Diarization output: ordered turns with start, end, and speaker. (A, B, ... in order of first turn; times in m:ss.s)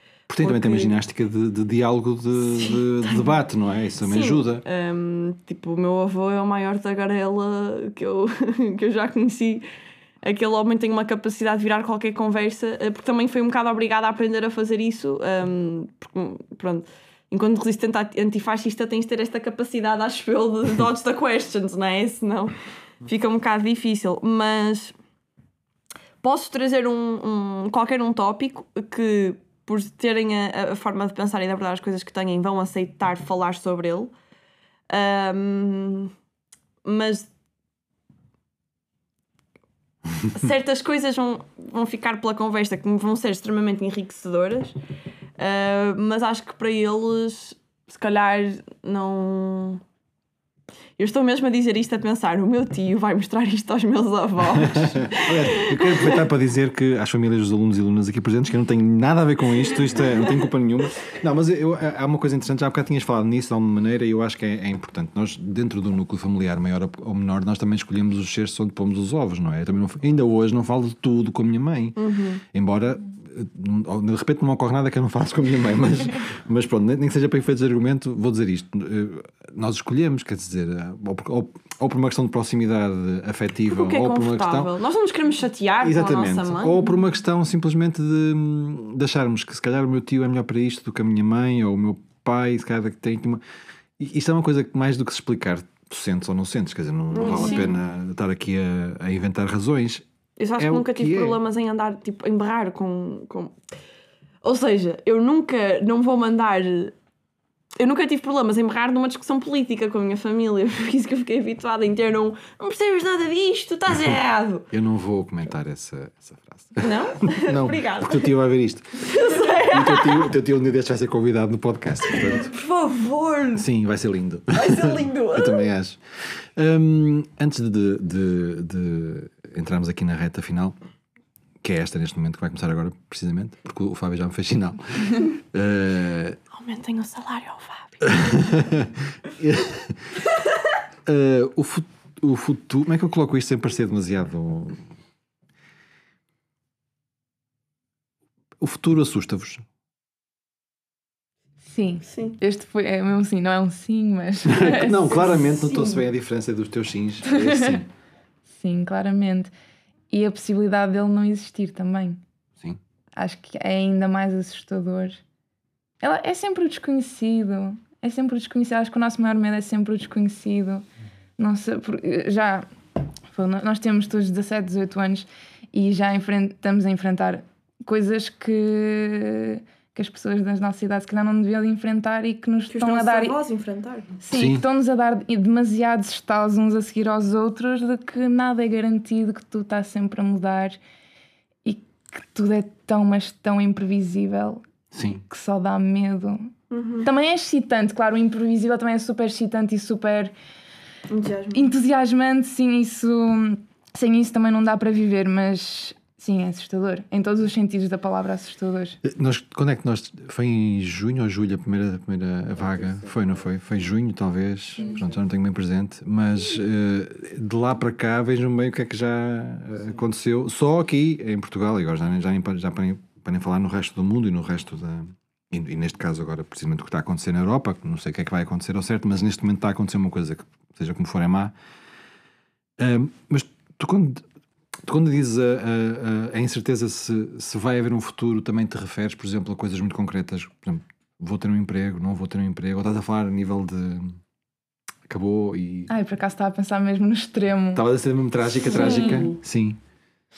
0:00.3-0:04.6 A
0:00.4-0:01.0 B
0:02.4-0:03.3 B
0:04.0-0:09.6 B
0:10.2-0:25.0 B
0:26.2-0:34.1 B
0:34.9-0:36.1 B
0:36.8-0:37.3 B
0:40.3-0:44.8 B
0:45.4-0:49.8 B
0:51.0-0:56.3 B
0:54.6-1:12.0 A
1:12.0-1:12.4 B
1:12.5-1:24.7 A
1:23.7-1:26.9 B
1:25.8-1:33.4 A
1:34.0-1:40.0 A
1:37.1-1:37.7 B
1:40.4-1:43.6 B
1:40.6-1:41.4 A
1:44.4-1:46.9 B
1:47.8-1:54.7 B
1:54.7-1:59.1 A
1:56.8-1:58.3 B
1:59.0-2:00.3 B
1:59.7-2:02.5 A
2:02.1-2:03.6 B
2:03.5-2:10.8 A
2:04.5-2:05.7 B
2:11.6-2:16.4 A
2:16.5-2:18.1 B
2:18.0-2:20.2 A
2:21.1-2:24.8 A
2:28.6-2:29.6 A
2:31.7-2:35.4 C
2:32.1-2:32.4 B
2:34.4-2:37.9 A
2:35.2-2:36.0 B
2:37.3-2:37.8 C
2:38.6-2:39.5 C
2:40.1-2:42.2 C
2:43.2-2:45.2 C
2:46.0-2:50.8 C
2:51.4-2:52.7 C
2:53.3-3:03.4 C
3:02.7-3:04.1 B
3:04.2-3:10.8 C
3:04.3-3:04.6 A
3:11.6-3:14.6 C
3:14.9-3:15.2 A
3:15.3-3:16.5 C
3:16.7-3:17.1 B
3:17.0-3:20.3 C
3:21.1-3:21.7 B
3:21.5-3:29.0 C
3:29.0-3:51.5 A
3:52.8-3:54.2 A
3:54.8-4:04.2 A
4:05.1-4:05.9 A
4:05.9-4:07.8 C
4:07.8-4:09.8 A
4:08.7-4:09.4 B
4:08.7-4:09.3 C